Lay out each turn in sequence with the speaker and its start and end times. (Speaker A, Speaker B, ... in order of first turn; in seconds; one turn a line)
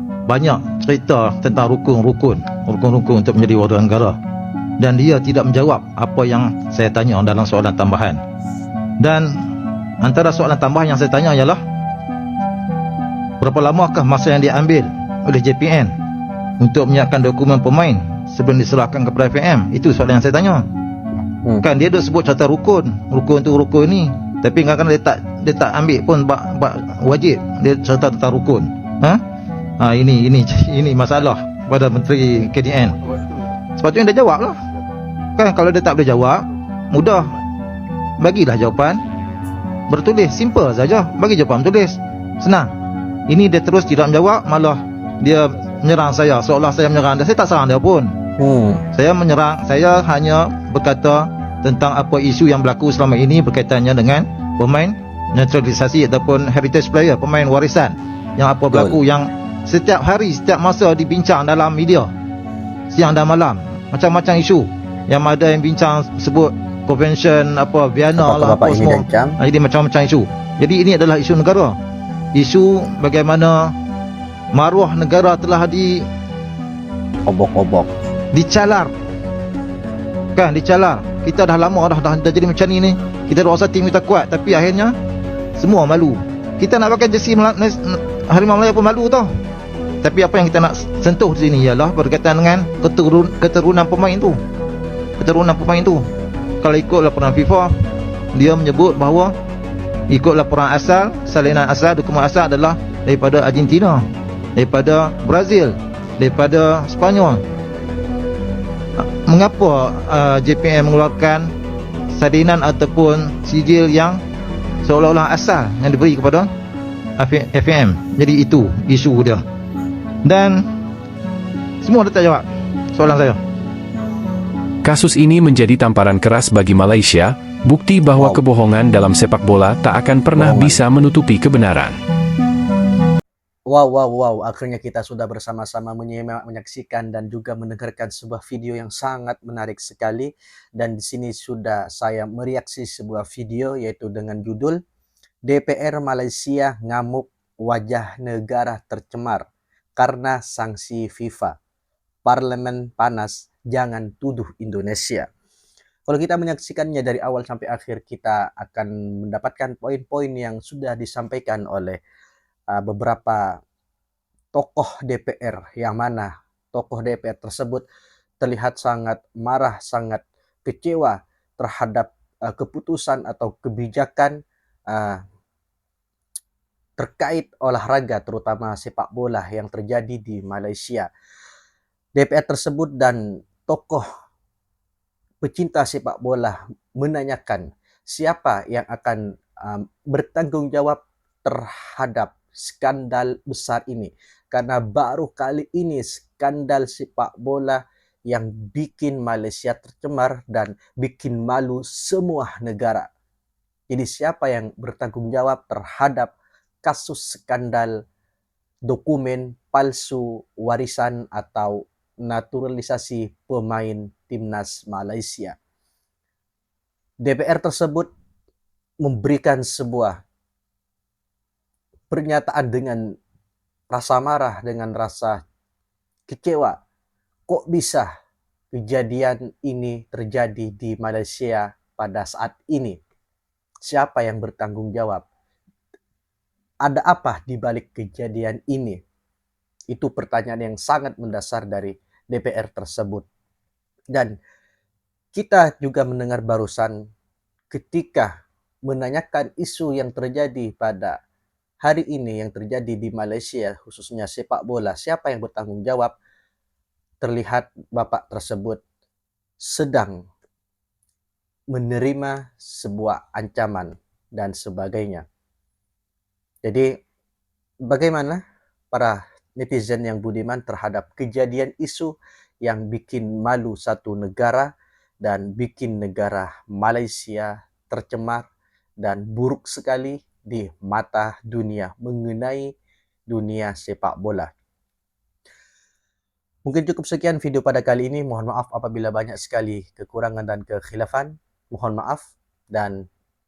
Speaker A: 0.3-4.2
Speaker A: 4.8-8.2
Speaker A: 9.0-9.4
Speaker A: 10.0-11.6
Speaker A: 13.4-15.9
Speaker A: 16.6-20.6
Speaker A: 21.6-29.2
Speaker A: 29.8-33.0
Speaker A: 33.8-34.6
Speaker A: 35.4-37.3
Speaker A: 38.2-39.0
Speaker A: 39.9-42.7
Speaker A: 43.3-48.1
Speaker B: 48.4-48.8
Speaker A: 48.9-62.1
Speaker B: 58.7-59.0
Speaker A: 62.9-71.8
Speaker B: 68.2-69.4
Speaker A: 72.3-73.7
Speaker A: 74.5-76.1
Speaker B: 77.3-77.9
Speaker A: 78.3-78.9
Speaker A: 80.4-85.0
Speaker A: 85.6-89.3
Speaker A: 90.0-94.4
Speaker A: 95.2-96.1
Speaker A: 96.6-97.7
Speaker A: 98.3-99.3
Speaker A: 100.1-104.0
Speaker A: 104.6-107.4
Speaker A: 109.0-111.5
Speaker A: 112.1-114.2
Speaker A: 114.8-116.5
Speaker A: 117.2-119.4
Speaker A: 120.2-120.7
Speaker A: 121.8-123.4
Speaker C: 124.8-132.0
Speaker B: 128.2-128.4
Speaker B: 130.3-130.8
Speaker B: 133.7-144.8
Speaker B: 145.4-151.6
Speaker B: 152.3-155.3
Speaker B: 156.1-162.0
Speaker B: 162.7-163.6
Speaker B: 164.5-167.8
Speaker B: 168.4-174.4
Speaker B: 174.9-175.2
Speaker B: 177.0-181.1
Speaker B: 182.2-184.1
Speaker B: 185.4-203.1
Speaker B: 203.9-208.0
Speaker B: 208.9-215.6
Speaker B: 217.2-218.1
Speaker B: 219.0-220.2
Speaker B: 222.1-223.1
Speaker B: 223.9-225.4
Speaker B: 226.3-226.8
Speaker B: 227.5-228.1
Speaker B: 228.7-233.0
Speaker B: 233.8-235.3
Speaker B: 236.8-239.0
Speaker B: 239.9-243.3
Speaker B: 245.3-247.1
Speaker B: 247.7-248.3
Speaker B: 248.9-251.2
Speaker B: 251.8-256.1
Speaker B: 257.2-258.8
Speaker B: 259.6-260.3
Speaker B: 261.7-265.2
Speaker B: 266.6-266.9
Speaker B: 267.9-268.4
Speaker B: 268.9-278.5
Speaker B: 279.0-282.7
Speaker B: 283.3-284.5
Speaker B: 286.6-293.0